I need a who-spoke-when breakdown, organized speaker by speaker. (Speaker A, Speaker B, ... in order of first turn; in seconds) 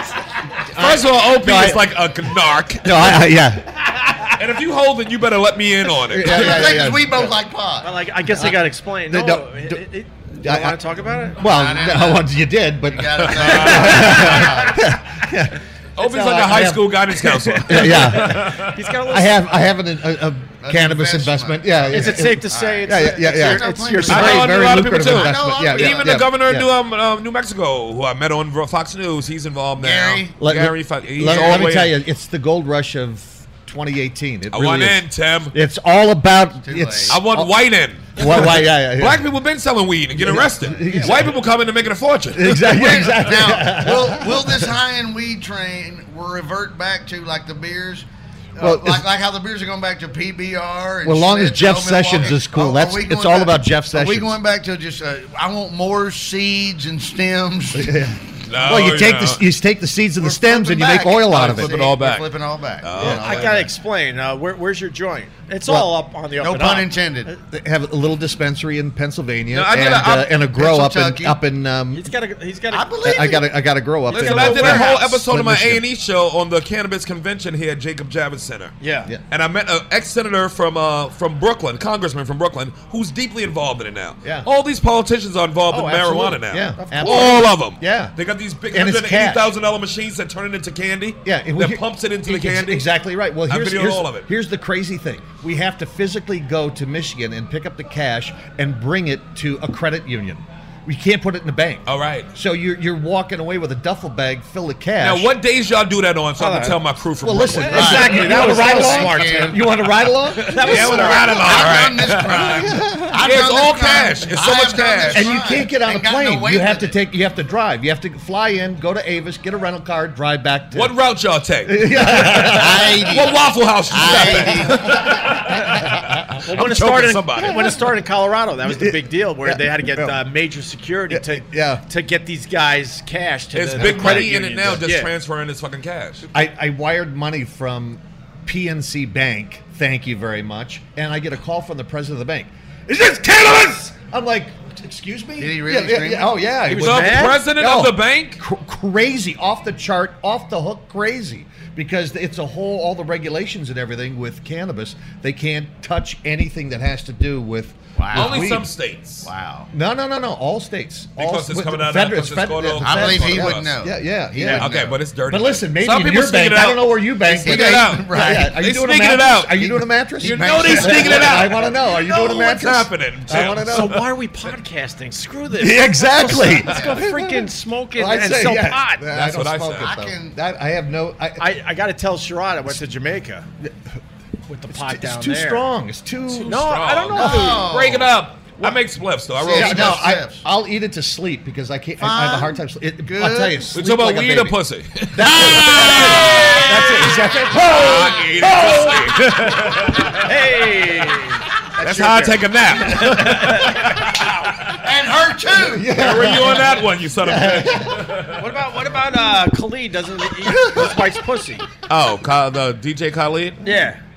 Speaker A: 0.7-1.9, 2.8-3.8, 6.1-7.3, 8.3-9.8, 10.4-10.8, 11.4-26.7, 30.4-37.5, 38.1-39.2, 40.1-41.3, 42.3-44.7, 48.6-49.0, 51.0-54.3, 57.7-61.7, 67.5-72.1, 73.0-75.8, 85.7-88.1, 88.7-89.5, 91.2-105.3, 107.2-111.2, 112.3-113.2, 115.1-121.0, 121.6-123.1, 124.0-125.4, 127.5-127.8, 128.7-130.2, 131.1-131.8, 133.7-134.4, 136.3-158.7, 159.7-174.1, 175.5-181.4, 183.6-183.9, 184.7-186.6, 187.2-187.7, 189.4-194.6, 195.1-198.9, 205.6-208.3, 210.4-211.2
Speaker B: 0.7-3.2, 4.3-6.8, 13.2-14.5, 16.0-18.7, 24.1-32.0, 34.5-35.5, 37.1-42.7, 58.5-59.4, 61.3-62.3, 62.8-63.6, 69.5-70.3, 74.1-78.8, 79.3-92.9, 93.5-94.3, 101.8-102.3, 105.0-108.2, 110.3-115.4, 120.7-125.7, 126.5-127.7, 133.5-136.2, 146.7-148.4, 158.1-159.3, 161.2-163.7, 164.5-174.0, 179.1-179.9, 186.3-190.0, 193.7-200.2, 201.8-204.7, 205.9-208.4, 211.9-213.6
Speaker C: 6.2-7.9, 11.4-12.3, 12.8-14.8, 20.6-26.4, 29.8-30.4, 31.2-31.7, 36.6-37.2, 40.9-41.1, 42.6-58.1, 60.2-63.7, 66.4-67.3, 70.5-71.4, 72.7-73.5, 107.5-109.6, 110.9-117.0, 122.3-125.1, 145.4-146.3, 158.0-158.6, 159.2-159.7, 162.8-164.9, 167.2-168.6, 170.8-171.2, 179.8-180.4, 187.1-188.1, 189.4-190.4, 192.0-193.7, 195.7-196.0, 204.8-205.9
Speaker D: 7.8-11.4, 17.8-19.4, 21.9-24.6, 63.0-67.3, 71.9-73.3, 74.1-75.0, 78.8-79.1, 86.8-87.5, 106.4-106.8, 107.5-109.6, 110.4-111.8, 126.4-135.1, 146.7-147.5, 164.4-164.7, 173.6-179.1, 181.4-183.5, 184.5-185.7, 186.4-187.7, 196.6-204.5, 208.3-211.7, 213.6-214.0